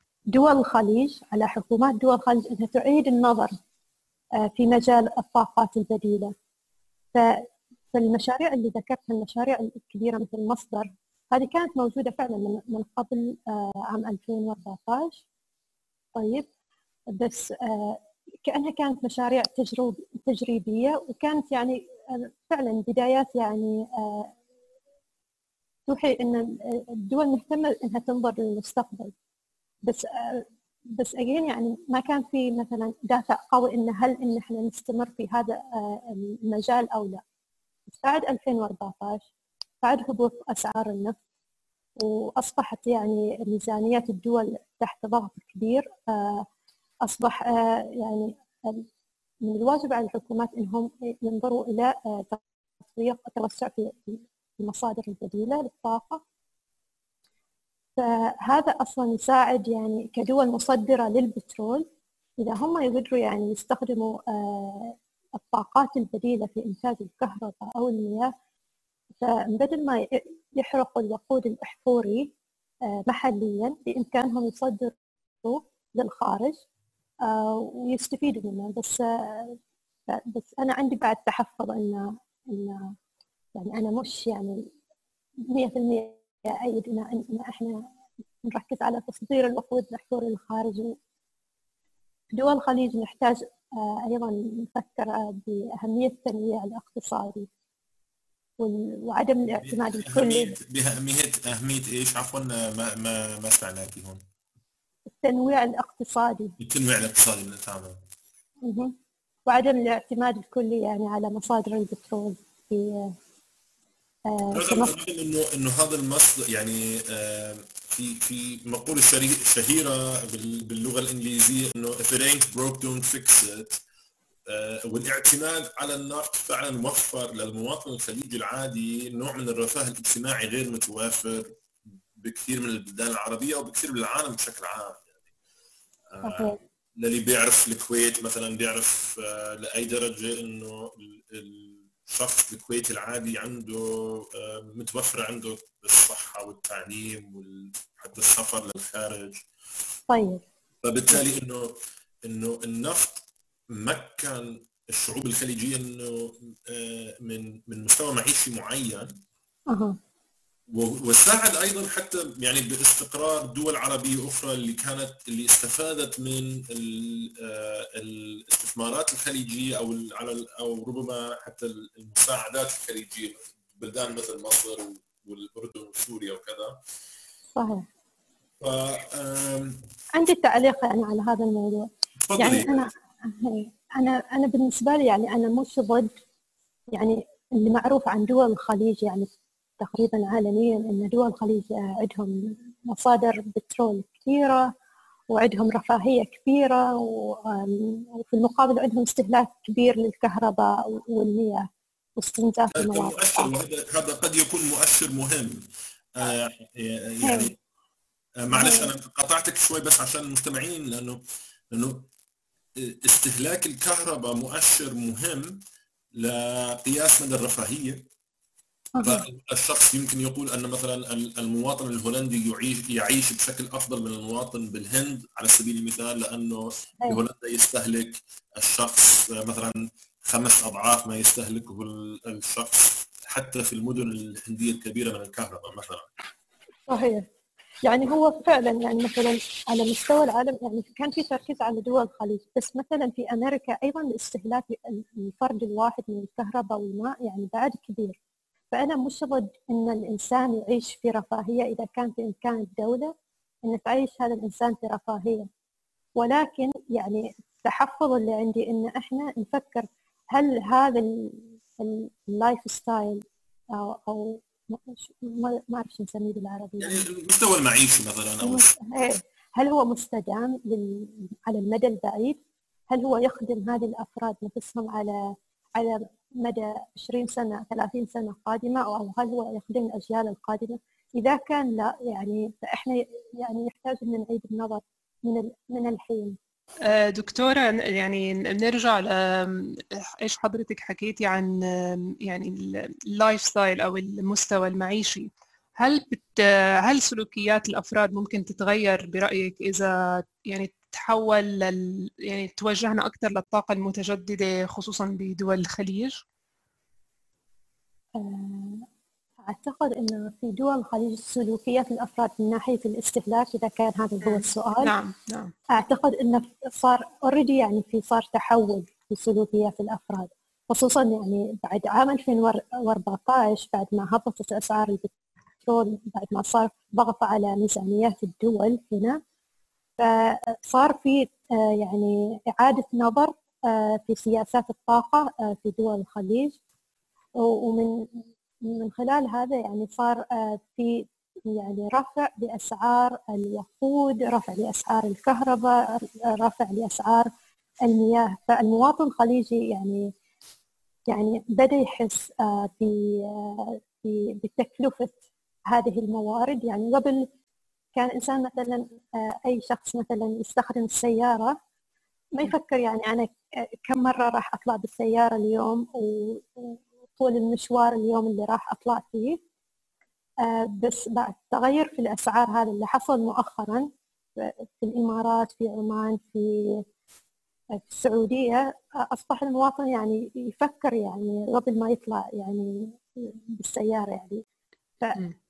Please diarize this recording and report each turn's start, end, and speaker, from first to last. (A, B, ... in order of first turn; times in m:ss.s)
0:00.3-0:03.5 A
0:04.4-0:06.3 A
0:07.9-0:15.2 A
0:16.1-0:16.4 A
0:17.1-0:24.3 A
0:25.9-0:29.1 A
0:29.9-0:30.4 A
0:31.0-0:37.2 A
0:37.9-0:39.3 A
0:39.8-0:41.2 A
0:42.0-0:46.4 A
0:47.0-0:48.8 A
0:49.4-0:56.2 A
0:58.0-1:01.8 A
1:02.4-1:08.3 A
1:09.2-1:12.3 A
1:12.9-1:16.6 A
1:17.2-1:19.6 A
1:20.1-1:22.9 A
1:23.6-1:24.6 A
1:25.5-1:27.8 A
1:28.4-1:31.0 A
1:32.4-1:37.5 A
1:38.6-1:40.5 A
1:39.6-1:44.2 B
1:45.2-1:46.5 A
1:46.6-1:48.0 B
1:48.6-1:48.9 A
1:49.5-1:53.1 A
1:54.3-1:54.9 A
1:54.5-2:03.8 B
2:04.5-2:11.5 B
2:12.2-2:15.2 B
2:16.2-2:29.4 B
2:16.2-2:16.6 A
2:30.1-2:30.4 A
2:30.8-2:39.2 B
2:39.7-2:40.0 A
2:40.7-2:56.8 B
2:57.5-2:57.8 A
2:58.6-2:59.8 B
3:00.2-3:06.1 A
3:02.2-3:02.9 B
3:06.9-3:14.7 A
3:15.3-3:21.6 A
3:22.2-3:23.5 A
3:22.7-3:25.6 B
3:26.2-3:27.5 B
3:27.2-3:27.5 A
3:28.4-3:31.2 B
3:28.5-3:28.9 A
3:31.7-3:32.1 B
3:32.8-3:35.6 B
3:36.1-3:38.0 B
3:39.0-3:39.2 A
3:39.0-3:56.1 B
3:56.9-3:57.2 A
3:57.8-4:08.2 A
4:08.7-4:13.1 A
4:13.6-4:15.5 A
4:16.2-4:23.2 A
4:23.7-4:27.0 A
4:26.8-4:28.7 B
4:28.4-4:32.4 A
4:32.9-4:35.2 A
4:35.8-4:46.4 A
4:46.8-5:06.2 C
5:08.2-5:08.8 A
5:09.4-5:14.9 A
5:14.2-5:15.5 C
5:15.7-5:29.2 A
5:30.0-5:36.6 A
5:37.4-5:38.0 A
5:38.6-5:47.3 A
5:47.8-5:50.1 A
5:51.1-5:57.3 A
5:58.0-6:01.5 A
6:02.3-6:03.3 A
6:03.9-6:09.4 A
6:10.4-6:13.9 A
6:14.4-6:16.8 A
6:17.8-6:24.4 A